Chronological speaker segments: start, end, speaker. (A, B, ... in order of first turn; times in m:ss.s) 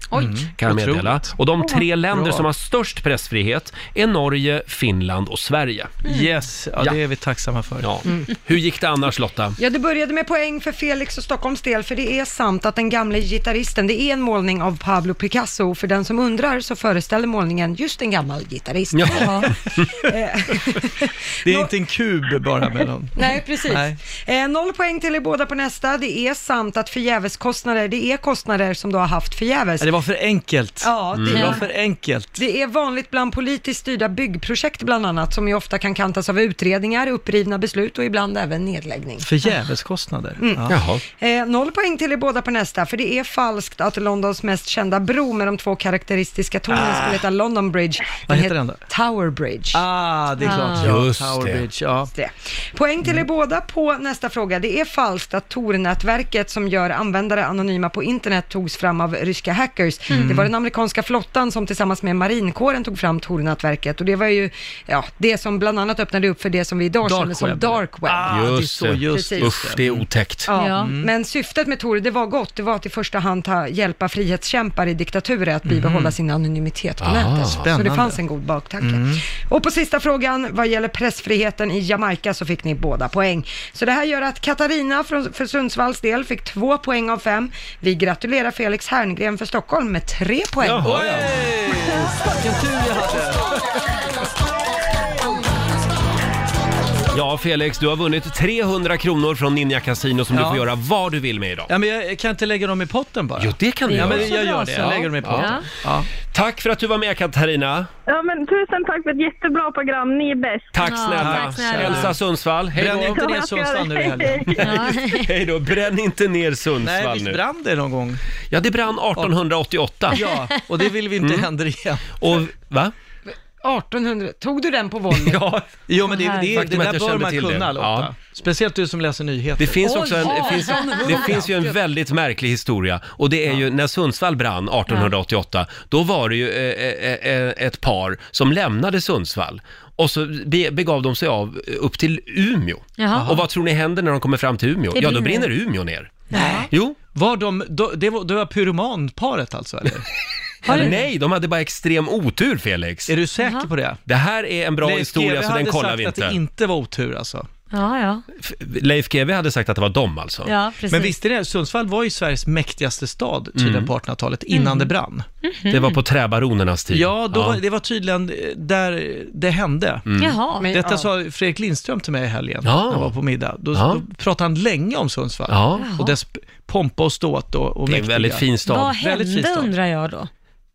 0:00.1-0:01.4 A
0:00.6-0:06.0 B
0:02.1-0:02.4 A
0:06.0-0:08.0 A
0:07.8-0:09.6 B
0:09.6-0:21.7 C
0:18.9-0:20.0 B
0:19.1-0:19.5 D
0:21.4-0:24.0 A
0:23.2-0:29.9 C
0:29.8-0:32.4 A
0:30.8-0:31.7 C
0:31.1-0:31.5 B
0:32.4-0:39.3 C
0:39.2-0:40.8 A
0:40.4-0:49.8 C
0:40.7-0:41.0 B
0:46.7-0:47.2 A
0:48.3-0:48.8 A
0:49.7-0:52.1 A
0:50.4-0:50.9 D
0:50.8-0:51.6 B
0:52.1-1:08.3 C
1:00.1-1:00.4 D
1:00.1-1:00.5 A
1:07.0-1:10.0 A
1:08.3-1:10.5 B
1:09.1-1:09.5 C
1:10.5-1:30.9 C
1:10.5-1:10.9 D
1:10.8-1:11.1 A
1:15.6-1:16.2 A
1:17.0-1:17.6 B
1:17.5-1:18.2 A
1:18.8-1:19.2 A
1:30.6-1:31.3 B
1:30.8-1:33.6 A
1:37.1-1:41.7 B
1:40.3-1:40.7 A
1:41.7-1:46.1 A
1:43.4-1:45.5 B
1:43.9-1:45.6 D
1:46.3-1:47.9 B
1:48.1-1:50.8 E
1:50.7-1:53.2 B
1:50.8-1:52.1 D
1:51.2-1:52.2 A
1:52.7-1:54.7 A
1:53.1-1:54.6 E
1:54.5-1:57.4 B
1:54.6-1:55.3 D
1:56.8-1:58.2 A
1:58.5-2:00.2 B
2:00.1-2:02.4 A
2:01.2-2:01.5 B
2:02.2-2:02.9 B
2:03.6-2:05.4 C
2:05.1-2:05.7 B
2:05.9-2:11.4 A
2:06.1-2:06.5 D
2:06.5-2:08.1 B
2:09.6-2:27.0 B
2:10.0-2:11.0 D
2:10.2-2:11.8 C
2:14.9-2:15.1 D
2:23.0-2:23.4 D
2:23.1-2:23.4 A
2:24.9-2:25.5 D
2:26.3-2:26.6 D
2:26.3-2:30.1 A
2:30.6-2:31.0 A
2:30.6-2:31.0 D
2:30.7-2:33.1 B
2:33.1-2:34.0 A
2:33.4-2:33.7 D
2:34.1-2:36.4 B
2:34.8-2:37.5 A
2:37.7-2:38.2 D
2:38.4-2:40.5 B
2:40.4-2:41.1 D
2:40.9-2:45.2 A
2:43.6-2:43.9 B
2:44.5-2:44.9 D
2:45.4-2:46.0 D
2:45.7-2:47.6 B
2:46.9-2:50.0 A
2:50.1-2:50.4 B
2:50.2-2:50.7 D
2:50.6-2:51.1 C
2:50.7-2:59.7 A
2:52.6-2:53.1 B
2:53.7-2:54.0 B
2:55.5-2:55.8 B
2:55.8-2:56.2 D
2:57.9-2:59.0 B
2:58.6-3:00.3 D